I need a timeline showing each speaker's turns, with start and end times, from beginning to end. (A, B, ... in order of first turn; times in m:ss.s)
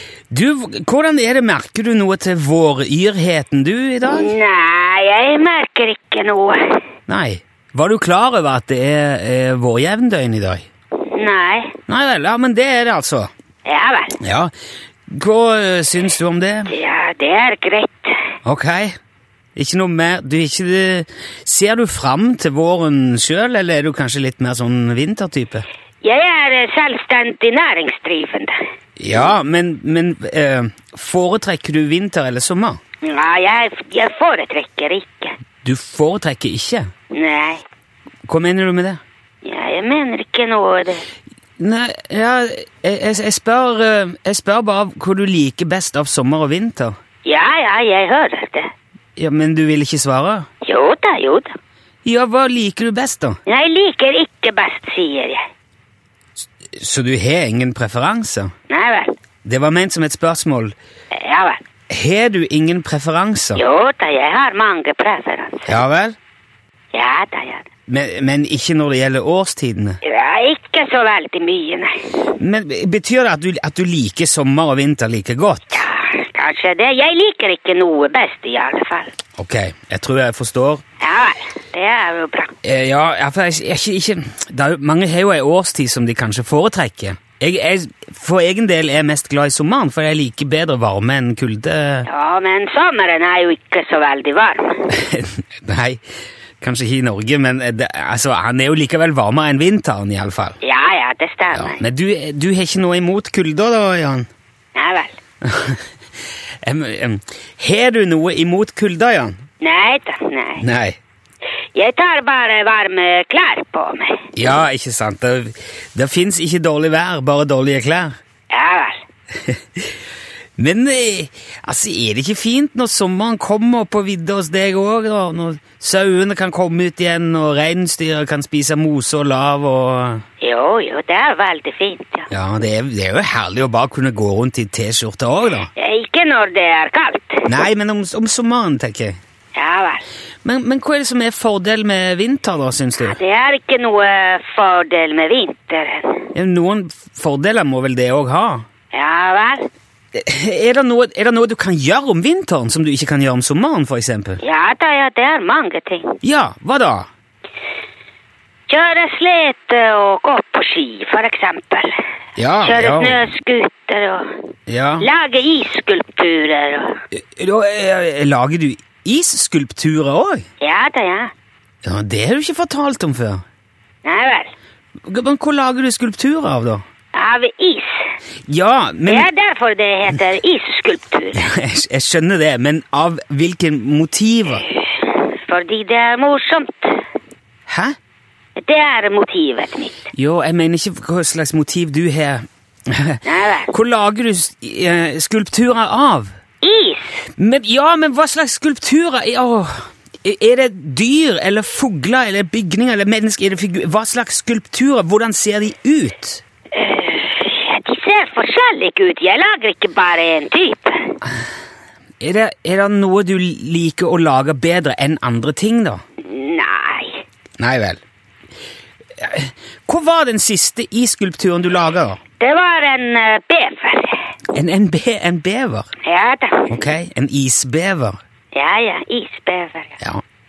0:00.3-0:04.3 A
0:04.1-0:06.8 B
0:07.1-0:10.7 A
0:11.0-0:11.8 B
0:11.9-0:13.3 A
0:13.6-0:14.2 B
0:14.2-0:14.5 A
0:15.1-0:16.7 A
0:16.7-0:18.1 B
0:18.4-0:19.0 A
0:19.6-0:25.6 A
0:26.0-0:28.5 B
0:29.0-0:32.8 A
0:33.0-0:35.3 B
0:35.6-0:36.9 A
0:37.1-0:37.6 B
0:38.3-0:39.0 A
0:39.4-0:41.0 B
0:41.6-0:46.9 A
0:47.2-0:48.7 B
0:49.2-0:50.5 A
0:50.6-0:51.5 B
0:52.0-0:53.4 A
0:53.4-0:55.4 B
0:56.8-0:58.5 A
0:58.7-0:59.1 B
0:59.4-1:00.8 A
1:01.1-1:01.6 B
1:01.9-1:03.6 A
1:03.6-1:05.8 B
1:05.7-1:06.2 A
1:06.9-1:07.7 B
1:07.9-1:10.0 A
1:10.0-1:12.1 B
1:12.3-1:15.8 A
1:15.7-1:19.1 B
1:19.4-1:20.8 A
1:21.0-1:22.5 B
1:22.6-1:32.1 A
1:32.1-1:34.9 B
1:34.9-1:36.0 A
1:36.6-1:40.6 A
1:40.6-1:41.8 B
1:41.6-1:44.3 A
1:44.8-1:45.2 B
1:45.4-1:45.8 A
1:46.6-1:49.4 A
1:49.6-1:50.6 B
1:50.6-1:51.0 A
1:51.8-1:54.2 B
1:54.3-1:58.2 A
1:58.5-1:59.0 B
2:00.6-2:10.2 A
2:10.4-2:12.3 B
2:12.3-2:15.7 A
2:15.8-2:17.6 B
2:17.5-2:19.2 A
2:19.6-2:20.0 B
2:20.4-2:23.2 A
2:23.0-2:26.3 B
2:26.3-2:28.6 A
2:28.9-2:29.6 B
2:30.1-2:34.4 A
2:34.4-2:36.2 B
2:36.2-2:37.1 A
2:38.7-2:41.9 B
2:42.4-2:43.2 A
2:42.6-2:44.4 B
2:44.7-2:45.1 A
2:45.0-2:47.0 B
2:47.1-2:50.4 A
2:50.6-2:51.3 B
2:51.8-2:53.4 A
2:54.0-2:54.5 B
2:55.1-2:56.8 A
2:57.1-2:57.9 B
2:58.5-2:59.3 A
2:59.1-3:01.4 B
3:01.4-3:04.6 A
3:04.6-3:07.0 B
3:07.7-3:08.0 A
3:08.6-3:10.0 B
3:10.1-3:16.3 A
3:13.2-3:13.7 B
3:16.6-3:17.2 B
3:17.4-3:26.4 A
3:26.8-3:31.1 B
3:32.2-3:36.0 A
3:36.2-3:37.2 B
3:37.6-3:38.0 A
3:39.2-3:42.2 A
3:42.4-3:44.2 B
3:44.6-3:45.9 A
3:46.0-3:46.8 B
3:46.7-3:48.2 A
3:48.5-3:50.0 B